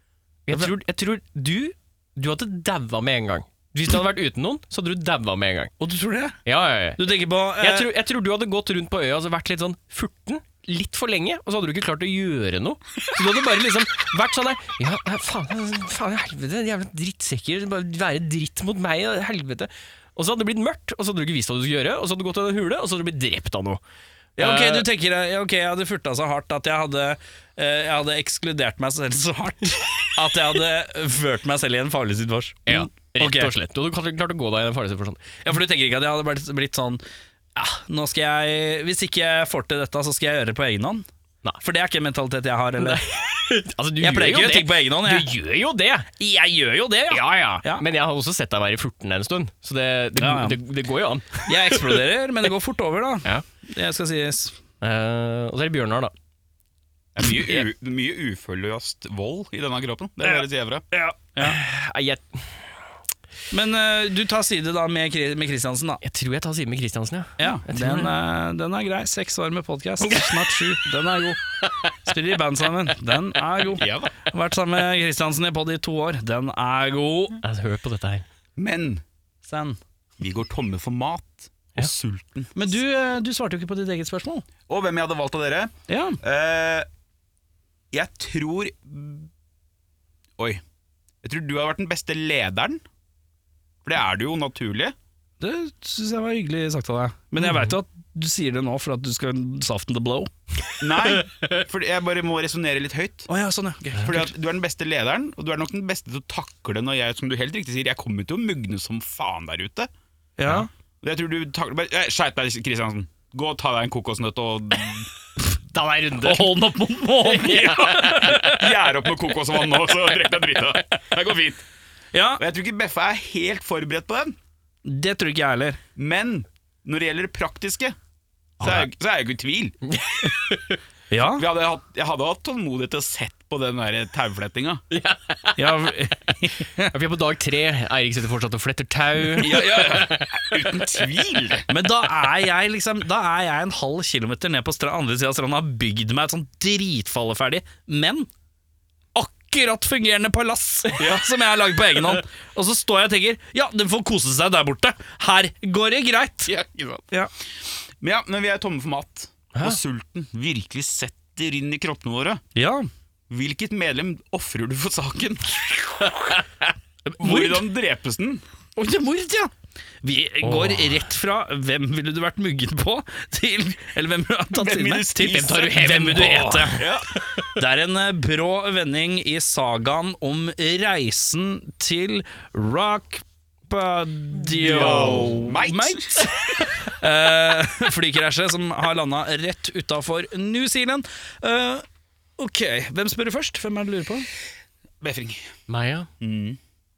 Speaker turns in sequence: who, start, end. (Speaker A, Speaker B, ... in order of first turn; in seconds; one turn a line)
Speaker A: 0.5-5.7
Speaker B: 5.8-6.4
Speaker A: 6.4-7.0
Speaker B: 7.0-7.9
Speaker A: 7.6-23.8
Speaker B: 24.4-33.5
Speaker A: 24.4-24.9
Speaker A: 32.7-35.2
Speaker B: 35.4-37.0
Speaker B: 37.5-41.0
Speaker B: 41.6-43.0
Speaker A: 42.8-46.1
Speaker B: 44.0-45.3
Speaker B: 46.2-47.8
Speaker A: 47.1-52.0
Speaker B: 50.2-50.6
Speaker B: 51.4-54.6
Speaker A: 54.8-56.1
Speaker C: 57.1-60.8
Speaker B: 60.2-61.6
Speaker A: 61.4-62.5
Speaker B: 63.5-66.0
Speaker A: 66.0-68.1
Speaker B: 67.4-71.4
Speaker A: 70.0-70.4
Speaker B: 72.0-77.4
Speaker C: 73.8-74.1
Speaker A: 77.4-78.2
Speaker C: 78.6-79.0
Speaker B: 79.4-79.8
Speaker C: 80.2-82.6
Speaker B: 82.5-84.5
Speaker C: 84.7-86.8
Speaker B: 85.9-86.2
Speaker C: 87.9-89.3
Speaker C: 91.2-92.8
Speaker C: 93.8-94.9
Speaker B: 95.4-100.3
Speaker A: 97.4-97.7
Speaker C: 100.8-103.3
Speaker B: 103.3-104.3
Speaker C: 104.0-109.9
Speaker B: 110.4-110.7
Speaker C: 111.0-115.1
Speaker A: 115.7-116.5
Speaker B: 116.2-118.7
Speaker A: 117.2-118.4
Speaker C: 117.9-121.6
Speaker B: 122.1-122.4
Speaker C: 122.4-124.3
Speaker B: 124.8-125.8
Speaker C: 126.0-128.0
Speaker B: 128.6-128.9
Speaker C: 128.6-129.8
Speaker A: 129.9-130.8
Speaker B: 131.1-131.4
Speaker C: 131.3-134.8
Speaker A: 134.9-135.6
Speaker B: 135.6-136.9
Speaker A: 136.9-141.0
Speaker C: 139.4-141.6
Speaker B: 141.7-148.3
Speaker B: 149.1-156.5
Speaker C: 156.4-157.0
Speaker C: 158.0-162.4
Speaker B: 162.5-162.9
Speaker C: 163.3-166.2
Speaker B: 167.1-167.7
Speaker C: 167.2-168.4
Speaker B: 168.8-176.8
Speaker A: 170.4-171.0
Speaker C: 174.5-177.1
Speaker A: 175.2-176.8
Speaker B: 177.5-191.8
Speaker C: 184.6-186.3
Speaker A: 184.8-185.2
Speaker B: 192.4-194.3
Speaker C: 195.0-195.4
Speaker A: 195.7-196.1
Speaker C: 196.2-196.6